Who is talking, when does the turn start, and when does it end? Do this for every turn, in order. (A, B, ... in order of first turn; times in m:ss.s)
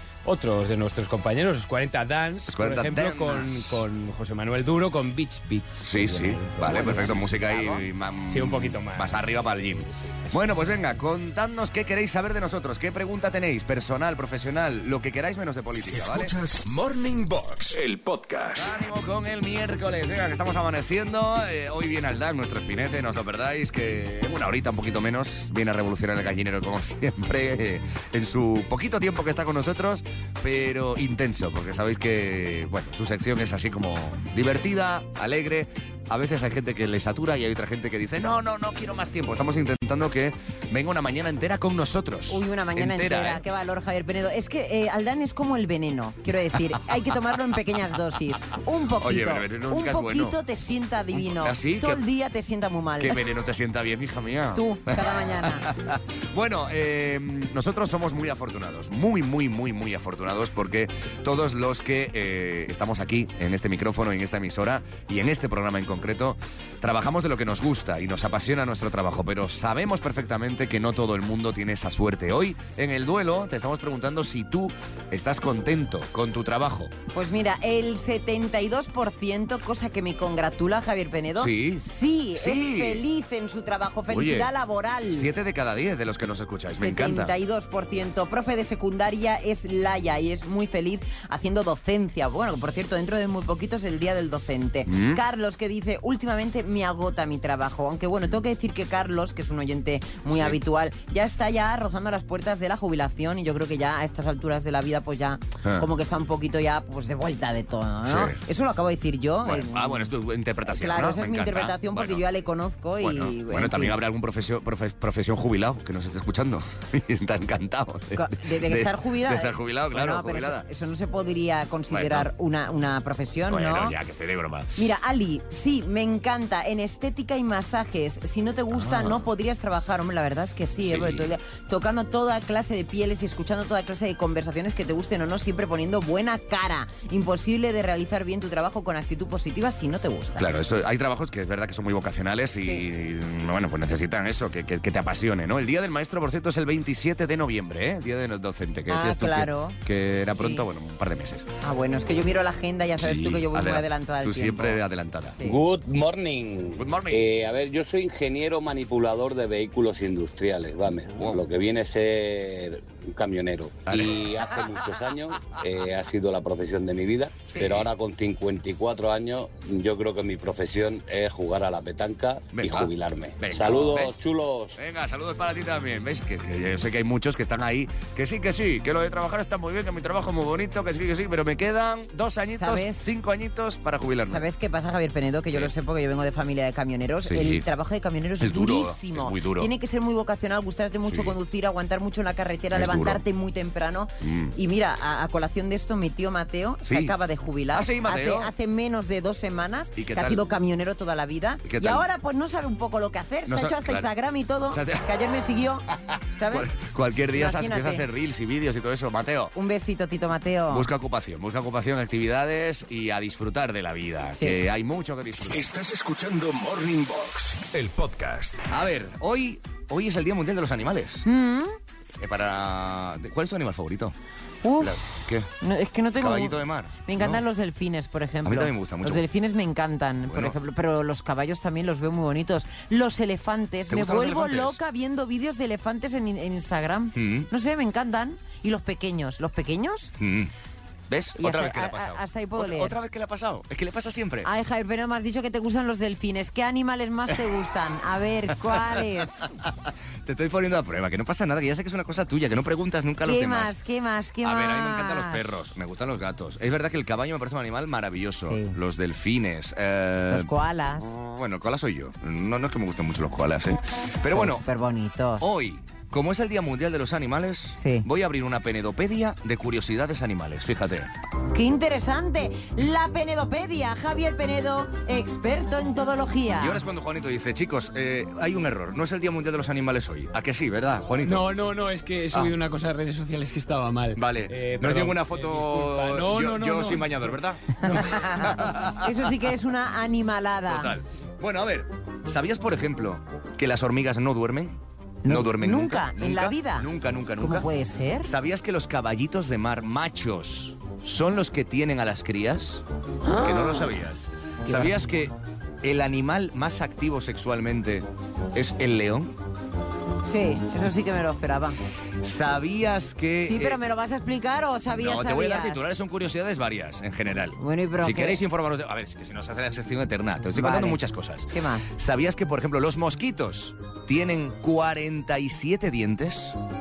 0:00.2-0:09.5 A
0:02.5-0:03.8 B
0:05.8-0:16.3 B
0:15.9-0:18.8 C
0:18.6-0:43.4 B
0:42.3-0:53.2 D
0:49.0-0:50.4 B
0:51.1-0:52.0 B
0:53.0-1:16.9 B
0:54.6-0:55.7 D
1:17.1-1:25.3 D
1:21.4-1:21.8 B
1:22.4-1:23.0 B
1:24.1-1:24.5 B
1:25.1-1:27.3 B
1:26.8-1:50.1 D
1:34.9-1:35.2 B
1:40.3-1:40.6 B
1:48.1-1:48.4 B
1:49.4-1:52.2 B
1:50.7-1:54.0 D
1:53.0-2:00.7 B
1:58.2-2:04.0 D
2:01.9-2:02.3 B
2:03.5-2:04.8 B
2:04.8-2:20.5 D
2:08.7-2:09.2 B
2:10.9-2:11.3 B
2:20.4-2:31.5 B
2:28.9-2:29.8 D
2:30.3-2:30.6 D
2:31.6-2:34.8 D
2:33.0-2:35.4 B
2:35.4-2:35.6 D
2:35.4-2:54.8 E
2:36.8-2:37.3 B
2:41.1-2:41.4 B
2:43.9-2:44.6 B
2:47.5-2:47.9 B
2:52.5-2:54.2 B
2:54.8-3:04.4 B
3:02.5-3:03.1 D
3:04.3-3:26.7 D
3:07.3-3:07.6 B
3:08.4-3:09.7 B
3:11.0-3:11.4 B
3:12.7-3:13.2 B
3:14.2-3:14.5 B
3:16.9-3:17.1 B
3:17.7-3:18.5 B
3:20.0-3:20.5 B
3:21.6-3:22.0 B
3:23.5-3:24.1 B
3:24.7-3:25.1 B
3:26.5-3:29.5 B
3:27.3-3:28.0 D
3:29.6-3:30.9 D
3:30.7-3:35.7 B
3:35.5-3:38.6 C
3:38.7-3:41.2 B
3:41.2-3:41.8 D
3:42.2-3:44.2 B
3:44.6-3:45.0 D
3:44.8-3:45.5 B
3:45.6-4:00.1 D
3:46.2-3:47.4 B
3:48.4-3:49.2 B
3:50.3-3:50.6 B
3:53.9-3:54.8 B
3:57.2-3:57.5 B
4:00.2-4:00.5 B
4:01.1-4:04.5 B
4:01.4-4:02.9 D
4:04.4-4:09.4 D
4:10.3-4:13.8 B
4:13.3-4:15.4 D
4:14.4-4:24.6 B
4:18.5-4:18.8 D
4:20.3-4:21.1 D
4:24.3-4:25.5 D
4:25.4-4:31.1 B
4:27.8-4:28.1 D
4:31.5-4:36.8 D
4:36.6-4:41.5 B
4:41.2-4:47.4 A
4:44.2-4:49.3 B
4:47.9-4:50.9 D
4:50.7-4:57.7 B
4:55.2-4:56.9 D
4:57.4-4:58.3 D
4:58.2-5:02.8 B
5:03.2-5:03.9 D
5:03.4-5:09.4 B
5:04.7-5:05.0 D
5:10.3-5:11.8 D
5:12.2-5:13.8 B
5:13.5-5:15.8 D
5:15.0-5:26.6 B
5:17.6-5:18.4 D
5:20.5-5:21.0 D
5:21.5-5:21.9 D